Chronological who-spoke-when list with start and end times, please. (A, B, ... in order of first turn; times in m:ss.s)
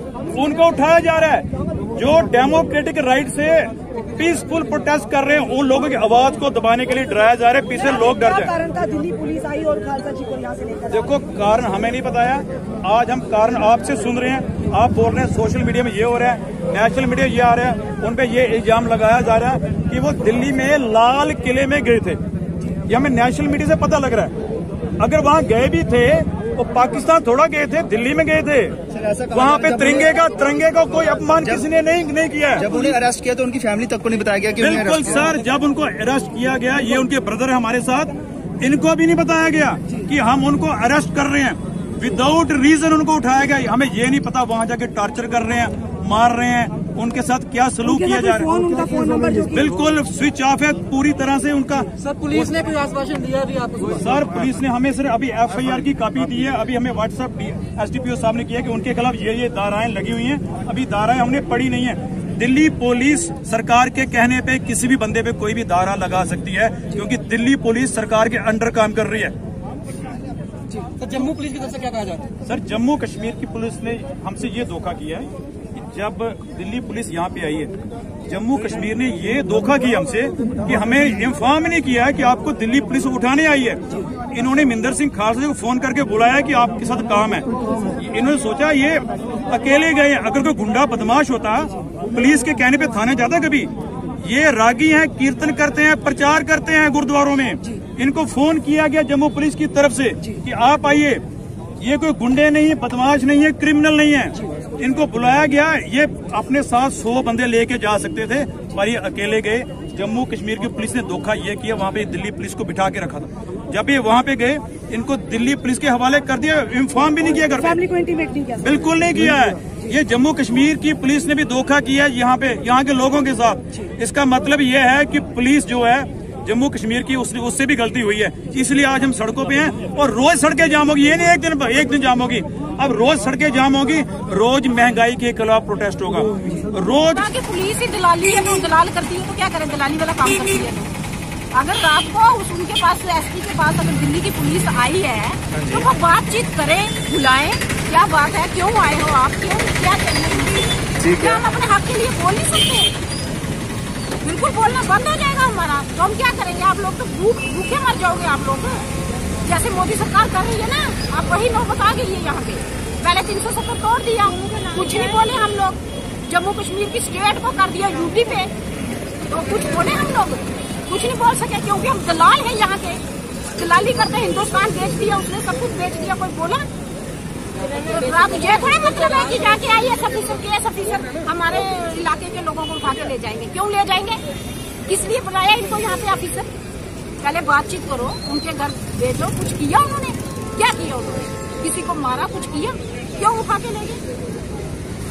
0:00.3-0:08.6 A
0:08.1-0:11.0 B
0:10.9-0:22.2 A
0:22.9-0:24.4 A
0:25.0-0:28.8 A
0:28.9-0:30.1 C
0:29.3-0:32.9 A
0:32.6-0:35.4 C
0:34.6-0:48.5 A
0:48.4-0:49.6 B
0:49.5-0:52.7 A
0:52.1-0:53.9 D
0:53.8-1:09.3 A
1:11.0-1:12.3 D
1:12.4-1:17.7 A
1:18.3-1:41.2 A
1:41.8-1:57.8 A
1:57.7-1:58.6 B
1:58.6-2:17.2 A
2:17.1-2:20.9 E
2:21.5-2:32.9 E
2:34.2-2:38.9 E
2:39.4-2:48.5 E
2:49.3-2:53.0 E
2:53.5-2:56.7 E
2:57.8-3:04.2 E
3:04.9-3:06.5 E
3:07.2-3:14.0 E